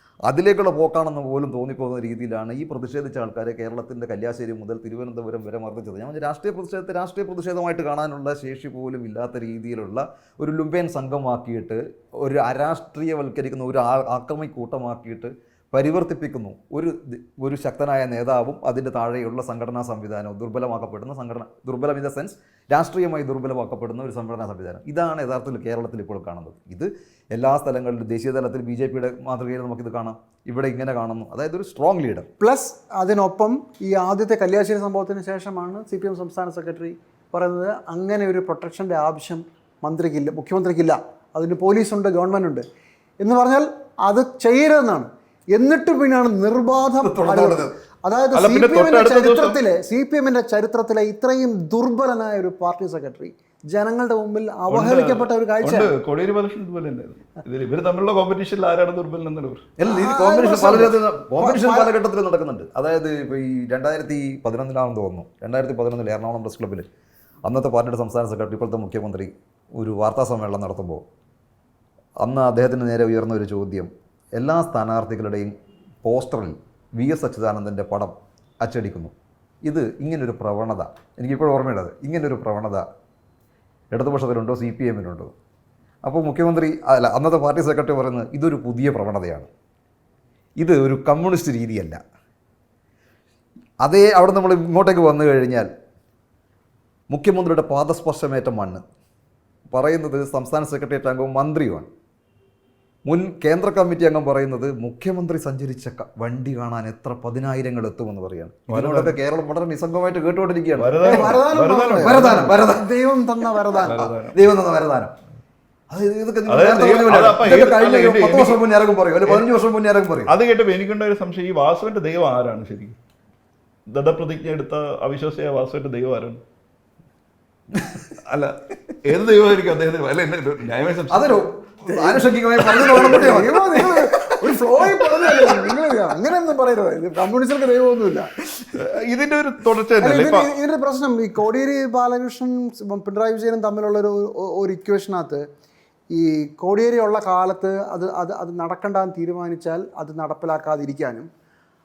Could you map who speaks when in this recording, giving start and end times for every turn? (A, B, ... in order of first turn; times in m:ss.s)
0:00.3-0:32.3 A
0:32.4-0:42.6 B
0:43.2-0:55.9 B
0:47.0-0:47.7 A
0:48.3-0:49.6 C
0:54.7-0:59.6 C
0:59.8-1:06.8 A
0:59.8-1:01.9 B
1:07.4-1:11.0 A
1:12.2-1:19.1 A
1:19.6-1:22.8 A
1:23.9-1:25.3 A
1:26.0-1:29.5 A
1:30.6-1:32.0 A
1:33.8-1:35.7 A
1:37.1-1:38.8 A
1:39.7-1:41.9 A
1:43.0-1:51.4 A
1:48.7-1:49.1 C
1:50.8-1:52.5 C
1:51.0-1:54.1 B
1:52.0-1:52.9 A
1:53.8-1:54.4 C
1:53.9-1:55.1 A
1:55.9-2:00.3 A
1:56.5-1:58.6 C
2:00.3-2:02.9 C
2:03.9-2:06.4 C
2:07.7-2:08.0 A
2:08.2-2:11.4 C
2:11.1-2:14.1 A
2:11.9-2:18.3 B
2:18.7-2:20.5 C
2:20.0-2:25.4 B
2:26.1-2:31.3 B